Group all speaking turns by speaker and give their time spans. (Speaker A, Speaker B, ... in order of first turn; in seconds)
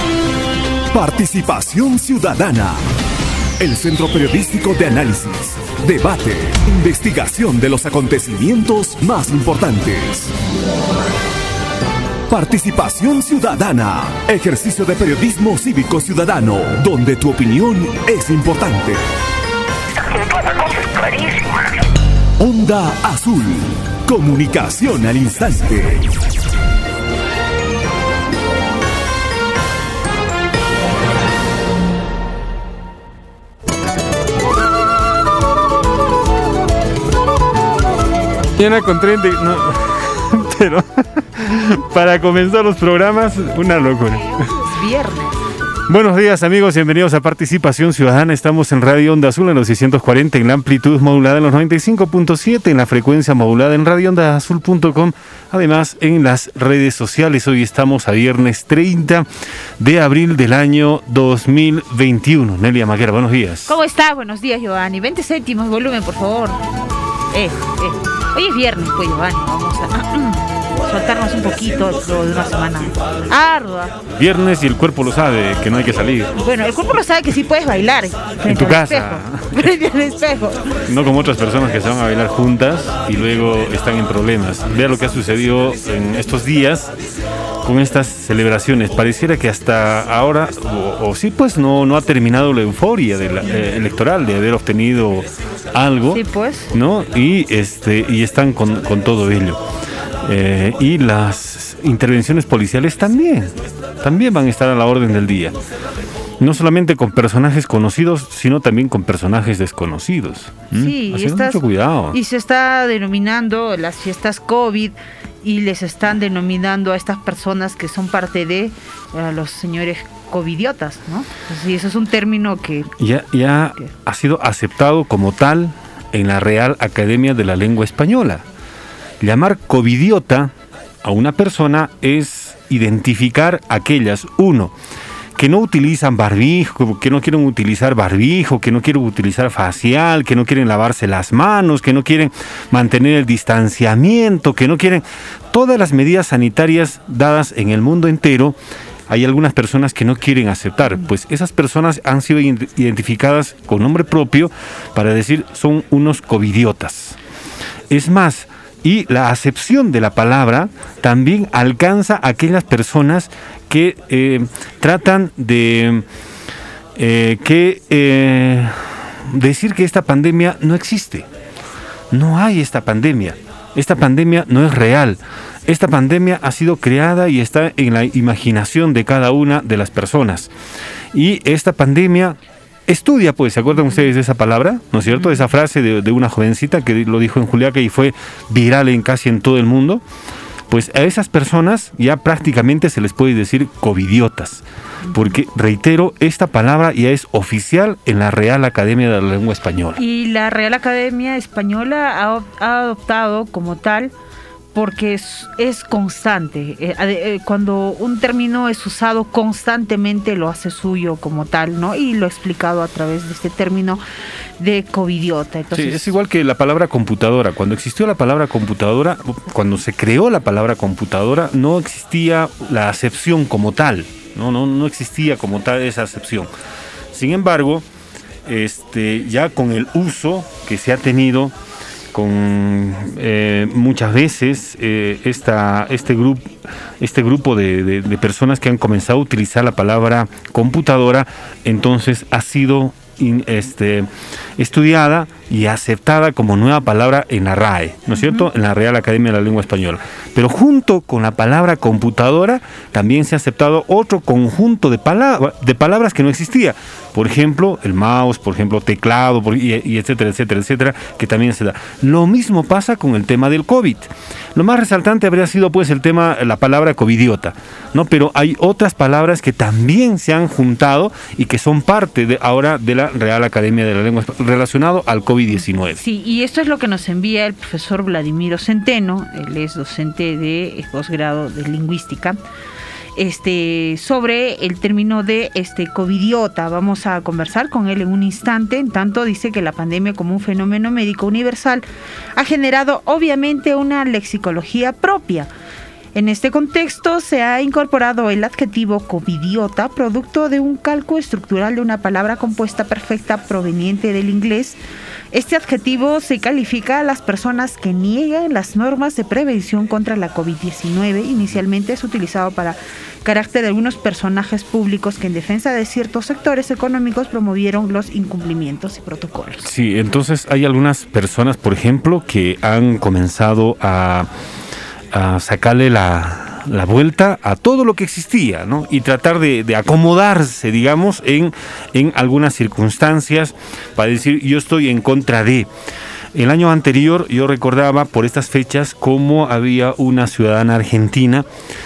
Speaker A: 0.9-2.8, 3.6-10.3, 12.3-19.0, 22.4-26.1
Speaker B: 38.5-44.3, 45.9-59.3, 59.8-63.7, 74.1-76.3, 78.4-79.7, 80.9-86.9, 87.6-96.2, 96.7-99.6, 100.2-105.5, 106.4-112.2, 123.0-128.4, 129.2-130.5, 131.0-134.7, 135.3-148.6, 149.1-157.2, 157.9-166.0, 166.9-171.3, 172.1-180.5, 181.1-190.0, 190.7-200.0, 215.7-226.5, 227.1-227.8, 228.4-231.5, 232.1-276.0, 319.6-324.3, 325.1-335.7, 336.3-341.4
Speaker C: 44.3-45.4, 63.6-66.6, 67.3-74.0, 76.4-80.6, 96.1-96.7, 110.7-122.9, 200.0-204.1, 204.7-214.0, 214.6-216.1, 275.9-282.4, 283.1-291.8, 292.4-295.5, 296.1-304.8, 305.3-319.7